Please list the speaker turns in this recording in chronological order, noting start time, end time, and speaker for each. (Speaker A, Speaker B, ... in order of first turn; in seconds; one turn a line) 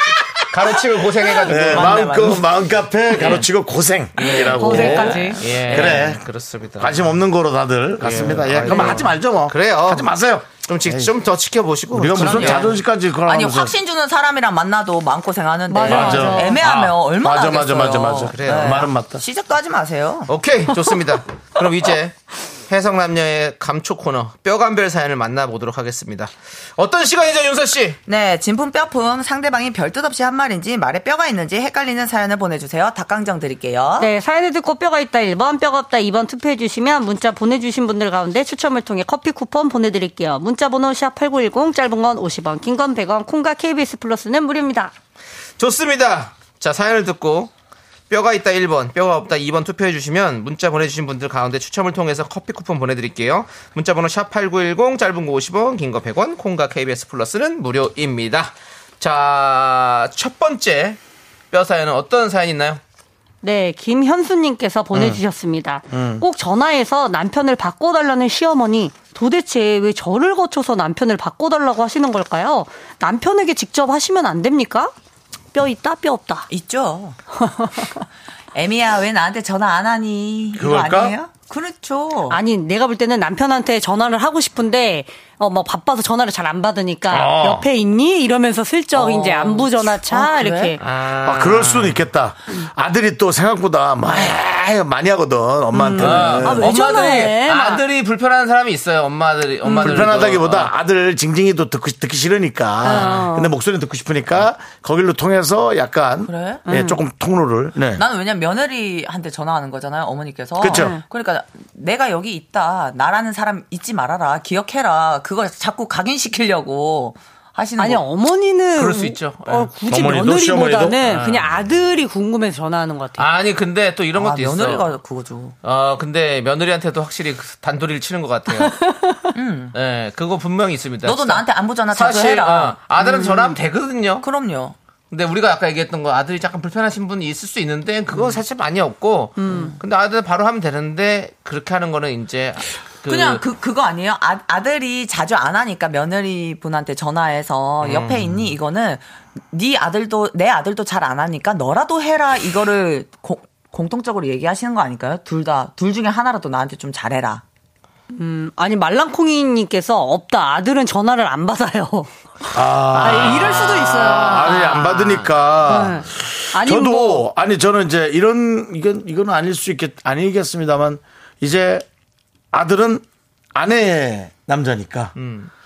Speaker A: 0.5-2.2
Speaker B: 1.4-6.2
Speaker C: 1.5-2.4
Speaker A: 3.1-3.4
Speaker D: 4.2-5.4
Speaker C: 4.2-6.0
Speaker A: 4.6-7.1
Speaker B: 6.8-11.1
Speaker A: 8.0-12.7
Speaker D: 8.7-9.1
Speaker B: 11.9-13.7
Speaker C: 12.1-20.3
Speaker D: 15.7-16.6
Speaker B: 15.9-19.2
Speaker A: 16.6-16.9
Speaker A: 18.2-18.9
Speaker A: 20.3-28.0
Speaker C: 28.1-34.1
Speaker D: 34.0-44.9
Speaker A: 45.6-47.5
Speaker A: 48.1-61.0
Speaker A: 61.5-62.8
Speaker D: 63.4-74.9
Speaker B: 64.9-65.2
Speaker B: 65.9-66.2
Speaker D: 75.5-76.5
Speaker C: 76.5-77.2
Speaker C: 78.5-82.4
Speaker B: 80.5-81.2
Speaker D: 82.3-90.8
Speaker B: 87.1-87.7
Speaker C: 89.0-90.8
Speaker A: 89.3-89.6
Speaker A: 90.8-92.0
Speaker B: 91.2-96.7
Speaker D: 95.7-97.8
Speaker A: 96.0-100.7
Speaker B: 99.6-108.0
Speaker D: 102.8-103.5
Speaker A: 102.9-103.2
Speaker C: 106.2-106.6
Speaker D: 106.7-107.0
Speaker C: 107.9-118.1
Speaker B: 110.6-111.0
Speaker D: 110.6-111.0
Speaker D: 117.8-123.2
Speaker A: 118.8-119.7
Speaker B: 119.9-121.2
Speaker A: 121.0-121.5
Speaker A: 123.2-124.9
Speaker C: 124.1-125.5
Speaker A: 125.6-128.7
Speaker D: 128.6-129.3
Speaker C: 129.3-129.7
Speaker A: 129.7-134.2
Speaker C: 131.0-133.2
Speaker D: 133.0-133.4
Speaker C: 134.2-134.8
Speaker A: 135.1-143.4
Speaker D: 139.4-139.7
Speaker C: 143.1-157.4
Speaker A: 147.8-148.4
Speaker D: 158.1-162.1
Speaker B: 162.5-171.8
Speaker D: 162.9-164.8
Speaker A: 164.1-165.5
Speaker D: 165.6-167.2
Speaker B: 172.5-175.1
Speaker A: 175.2-175.5